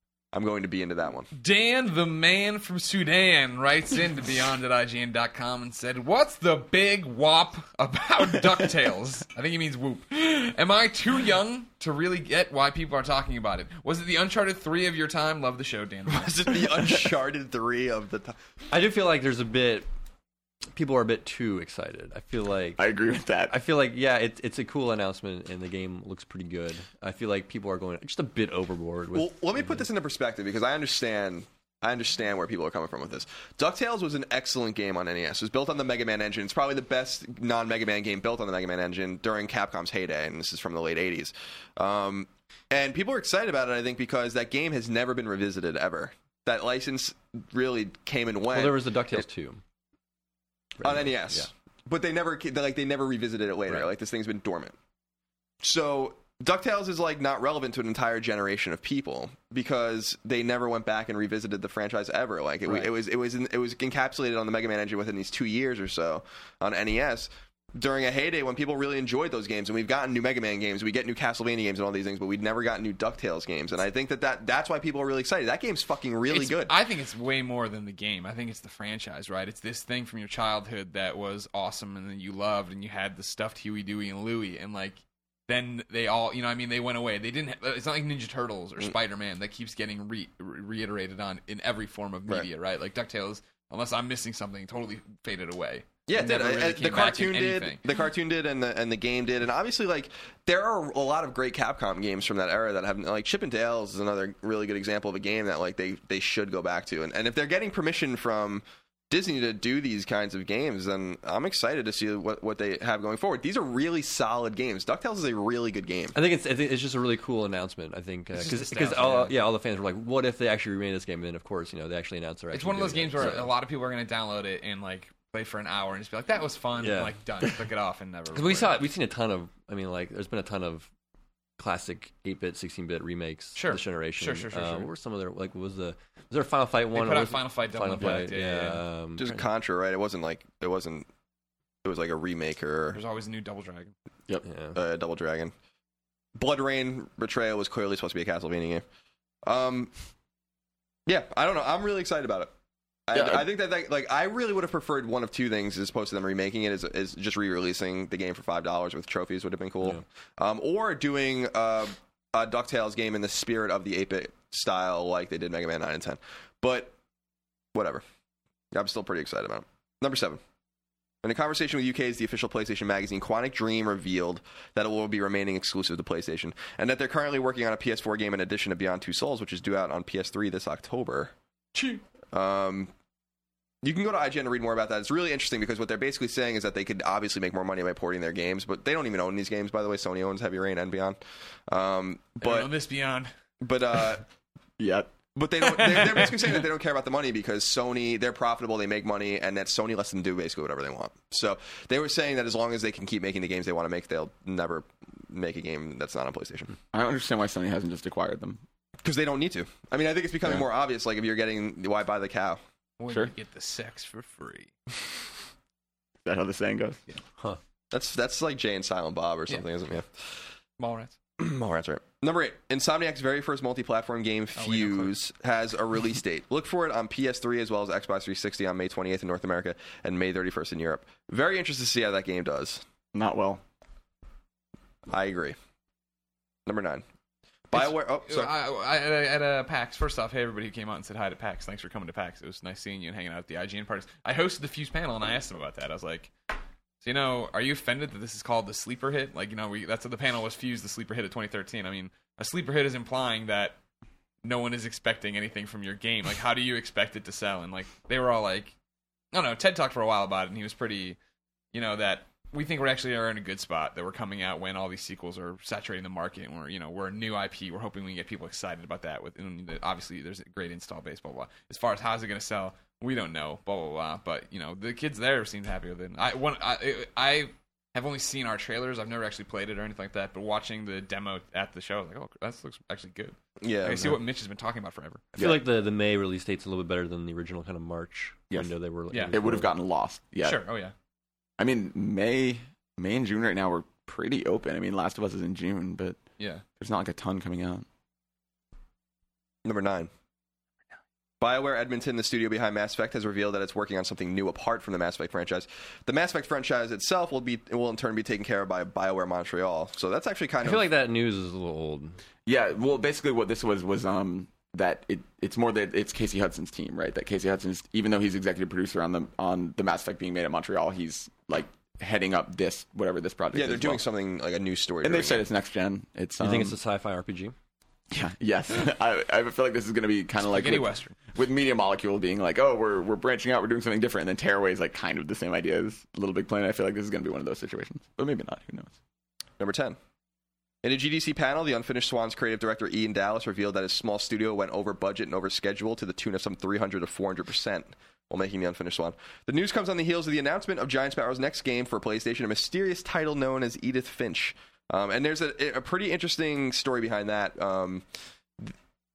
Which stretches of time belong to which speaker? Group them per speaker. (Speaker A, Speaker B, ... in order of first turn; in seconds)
Speaker A: 0.3-1.3, 16.1-18.3, 29.1-49.2, 50.8-54.8, 55.6-76.7, 96.1-116.1, 139.2-141.1, 141.8-143.0, 144.7-145.5, 146.3-148.8, 149.4-149.9, 151.1-152.5, 153.1-166.9, 167.7-168.0, 168.7-170.4, 171.2-181.3, 182.3-182.9, 183.8-192.7, 193.6-194.2, 195.3-206.7, 209.0-212.6, 217.9-220.1, 221.4-232.8, 235.1-235.6, 236.7-237.0, 237.7-238.5, 283.6-284.1, 299.6-300.1, 301.4-310.9, 323.5-325.4, 339.6-340.0, 340.8-358.0
Speaker B: 1.3-16.7, 76.3-97.8, 118.4-119.3, 122.5-128.8, 133.5-134.9, 136.9-138.8, 142.9-143.9, 181.7-182.0, 192.4-193.3, 195.7-196.5, 213.0-214.7, 220.8-221.1, 224.5-225.1, 237.7-246.3, 247.0-253.8, 254.4-258.7, 259.3-261.2, 261.7-285.2, 289.1-289.4, 290.4-290.9, 296.4-296.6, 330.5-331.1
Speaker C: 18.7-19.9, 20.7-22.8, 23.5-29.8, 48.5-49.6, 50.8-51.5, 116.1-123.5, 126.8-127.2, 128.3-130.9, 131.6-139.4, 144.4-144.8, 285.4-289.7, 310.6-312.2, 326.4-327.5
Speaker D: 22.8-23.5, 153.1-153.5, 194.8-195.1, 206.9-208.6, 216.2-217.0, 233.1-233.6, 285.3-285.6, 289.3-290.6, 291.6-296.2, 296.8-297.9, 312.4-324.0, 325.0-326.8, 328.1-338.9